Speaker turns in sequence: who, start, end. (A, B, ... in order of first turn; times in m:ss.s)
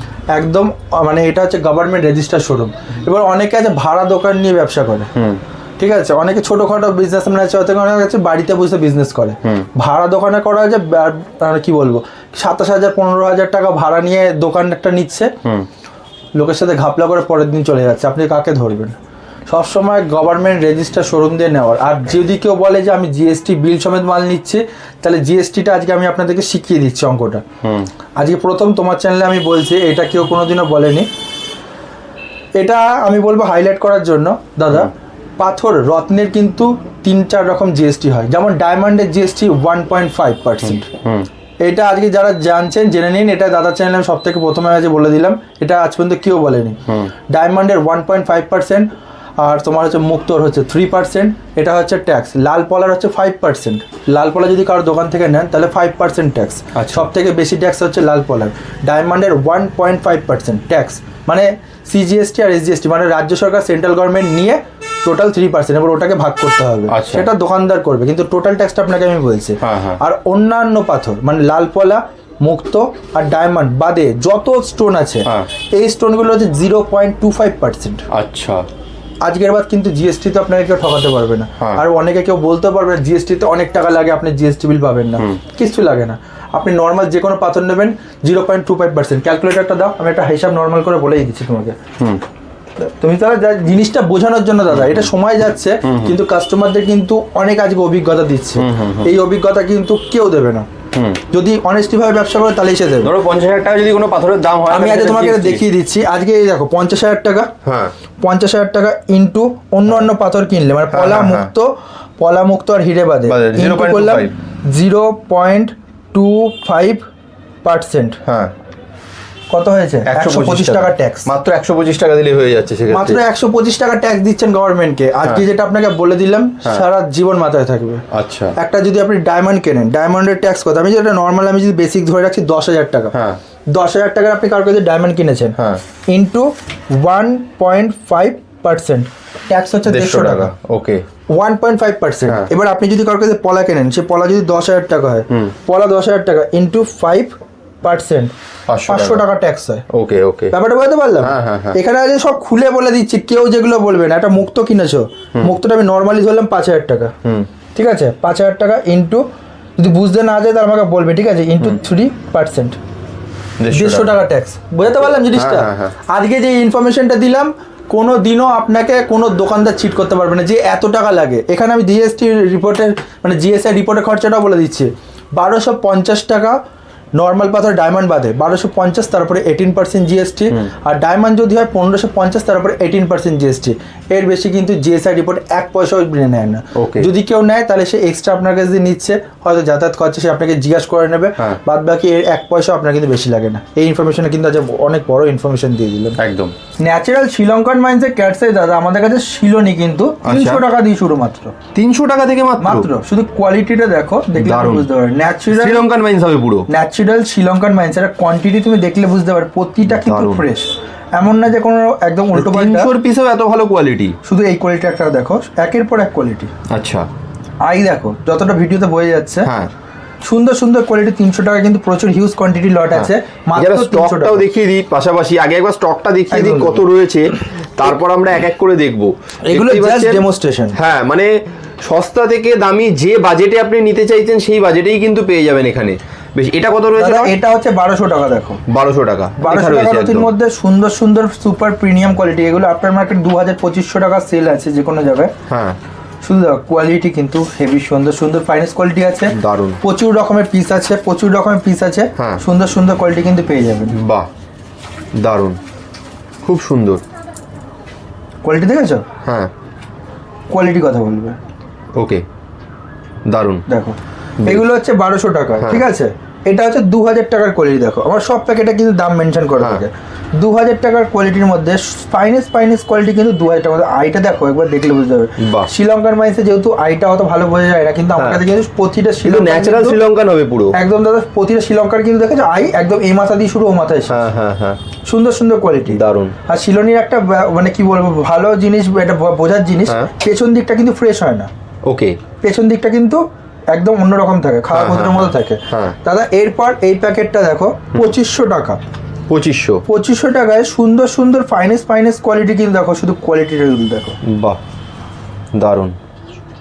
0:00.3-0:05.1 A
0:05.2-0:05.4 B
0:05.8-0:15.3 A
0:16.3-0:18.9 A
0:19.5-0:27.4 A
0:27.6-0:27.9 B
0:28.2-0:31.1 A
0:32.6-0:40.9 A
0:40.7-0:41.3 B
0:41.6-1:18.0 A
0:46.9-0:47.1 B
0:56.7-0:57.1 B
1:06.9-1:07.2 B
1:09.6-1:10.0 B
1:18.1-1:18.7 B
1:19.2-1:31.8 A
1:32.8-1:40.7 A
1:34.7-1:35.1 B
1:35.8-1:36.2 B
1:38.6-1:39.1 B
1:40.9-1:41.2 B
1:41.3-1:43.1 A
1:43.0-1:45.6 B
1:44.7-1:47.5 A
1:47.6-1:47.9 B
1:48.2-1:57.0 A
1:50.9-1:51.5 B
1:53.3-1:54.3 B
1:57.6-1:58.2 A
1:58.2-1:58.5 B
1:59.5-2:01.3 A
2:00.0-2:03.2 B
2:02.9-2:08.0 A
2:08.1-2:08.5 B
2:08.6-2:13.1 A
2:13.1-2:13.4 B
2:13.7-2:15.6 A
2:15.6-2:15.8 B
2:16.1-2:20.5 A
2:19.8-2:21.0 B
2:21.3-2:28.3 A
2:28.7-2:29.2 B
2:28.8-2:29.8 A
2:29.9-2:30.5 B
2:30.5-2:37.1 A
2:31.2-2:31.8 B
2:37.7-2:39.2 A
2:39.8-2:42.8 A
2:43.6-2:44.2 B
2:43.7-2:56.6 A
2:44.9-2:46.0 B
2:57.2-3:16.2 A
3:06.7-3:07.1 B
3:16.2-3:16.5 B
3:16.8-3:21.5 A
3:20.2-3:20.6 B
3:21.7-3:22.9 B
3:22.6-3:25.8 A
3:24.3-3:24.9 B
3:25.5-3:26.7 B
3:26.7-3:32.9 A
3:29.9-3:30.4 B
3:32.3-3:34.2 B
3:34.2-3:36.5 A
3:36.7-3:37.1 B
3:37.6-3:39.5 A
3:39.4-3:39.7 B
3:40.2-3:44.5 A
3:42.9-3:57.3 B
3:46.3-3:46.8 A
3:49.4-3:50.8 A
3:57.0-3:58.6 A
3:58.7-4:00.3 B
3:59.4-4:05.3 A
4:05.5-4:05.8 B
4:06.2-4:13.9 A
4:09.3-4:09.8 B
4:12.2-4:12.4 B
4:13.9-4:14.3 B
4:15.2-4:15.6 B
4:16.4-4:17.0 B
4:18.4-4:19.0 A
4:19.2-4:19.5 B
4:20.5-4:21.4 A
4:22.0-4:22.2 B
4:23.3-4:23.6 B
4:23.7-4:40.0 A
4:25.6-4:25.8 B
4:29.6-4:29.8 B
4:35.4-4:35.7 B
4:38.2-4:38.4 B
4:39.2-4:40.8 B
4:40.7-4:44.2 A
4:44.1-4:44.8 B
4:45.0-4:51.5 A
4:45.9-4:46.4 B
4:51.8-4:52.2 B
4:52.4-4:58.8 A
4:54.7-4:56.0 B
4:59.3-4:59.8 B
4:59.9-5:04.2 A
5:04.2-5:04.6 B
5:05.5-5:06.0 B